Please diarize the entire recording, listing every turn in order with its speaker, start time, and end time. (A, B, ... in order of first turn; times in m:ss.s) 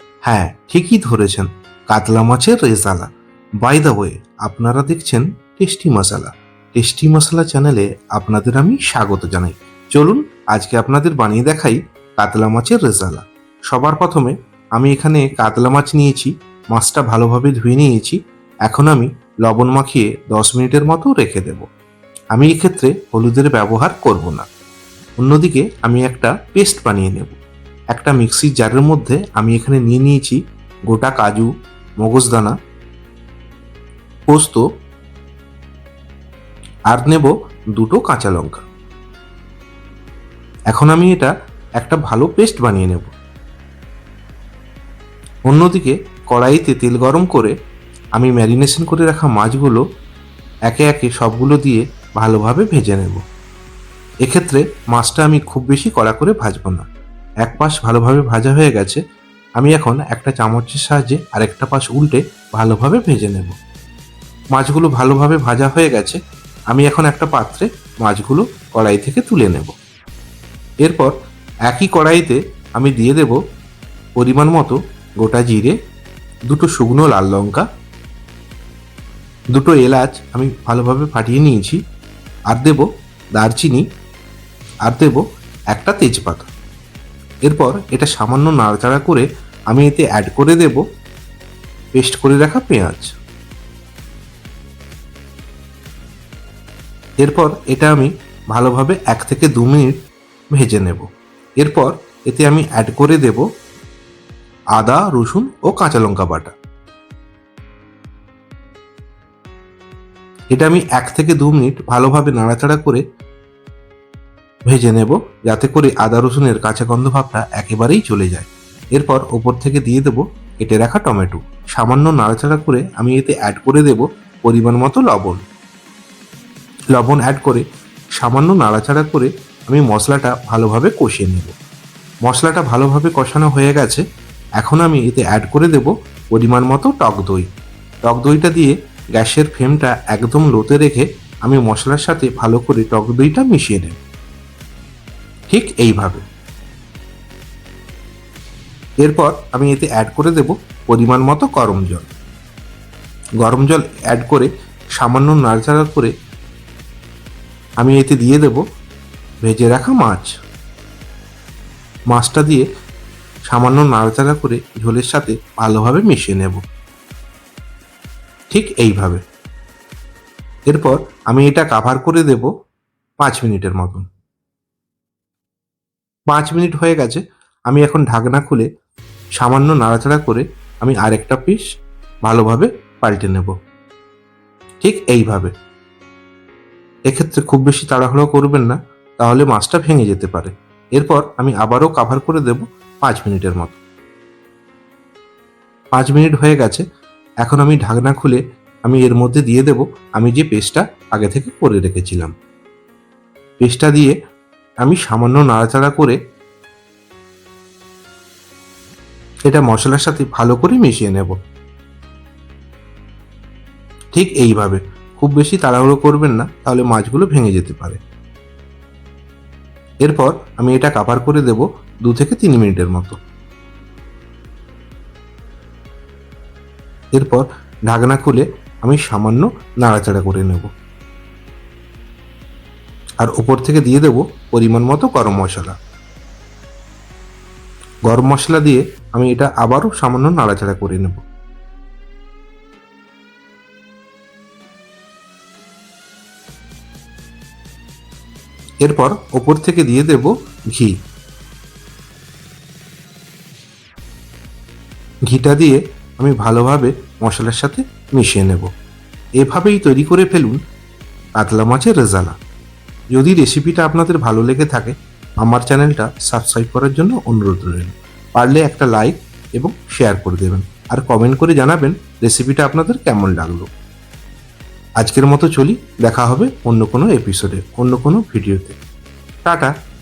0:00.2-0:21.6 A
0:22.3-0:24.4 A
0:25.2-0:27.4 A
0:27.9-0:32.5 A
0:34.3-0:34.6 A
0:36.9-0:38.6 A
0:40.7-0:43.1 A
0:45.5-0:47.5 A
0:48.2-0:49.8 A
0:50.7-0:53.2 A
0:54.2-0:56.8 A
0:57.4-0:59.0 A
0:59.6-1:03.5 A
1:04.5-1:06.2 A
1:06.7-1:09.7 A
1:10.8-1:11.1 A
1:11.7-1:13.4 A
1:14.2-1:15.7 A
1:16.5-1:17.6 A
1:19.5-1:21.8 A
1:22.5-1:23.8 A
1:24.8-1:26.5 A
1:27.4-1:30.8 A
1:32.0-1:33.2 A
1:37.2-1:40.0 A
1:40.5-1:41.0 A
1:41.6-1:43.4 A
1:44.7-1:46.5 A
1:50.5-1:53.0 A
1:54.6-2:05.4 A
2:06.9-2:07.6 A
2:08.2-2:11.5 A
2:12.2-2:14.0 A
2:14.6-2:17.5 A
2:18.0-2:24.0 A
2:25.5-2:26.2 A
2:29.0-2:32.1 A
2:33.4-2:36.1 A
2:37.8-2:38.6 A
2:39.4-2:40.3 A
2:42.1-2:42.6 A
2:43.5-2:46.6 A
2:48.5-2:49.2 A
2:50.7-2:52.5 A
2:53.2-2:54.0 A
2:56.3-2:58.6 A
2:59.4-3:01.6 A
3:02.2-3:03.5 A
3:04.8-3:05.5 A
3:07.1-3:13.8 A
3:15.9-3:16.8 A
3:17.4-3:22.3 A
3:23.6-3:24.2 A
3:24.8-3:26.2 A
3:29.5-3:31.4 A
3:34.1-3:38.0 A
3:40.0-3:43.2 A
3:47.1-3:50.7 A
3:53.2-3:55.8 A
3:58.0-4:01.2 A
4:08.8-4:10.9 A
4:15.3-4:18.7 A
4:19.4-4:20.6 A
4:21.4-4:22.4 A
4:23.1-4:33.7 A
4:35.0-4:38.8 A
4:39.4-4:39.7 A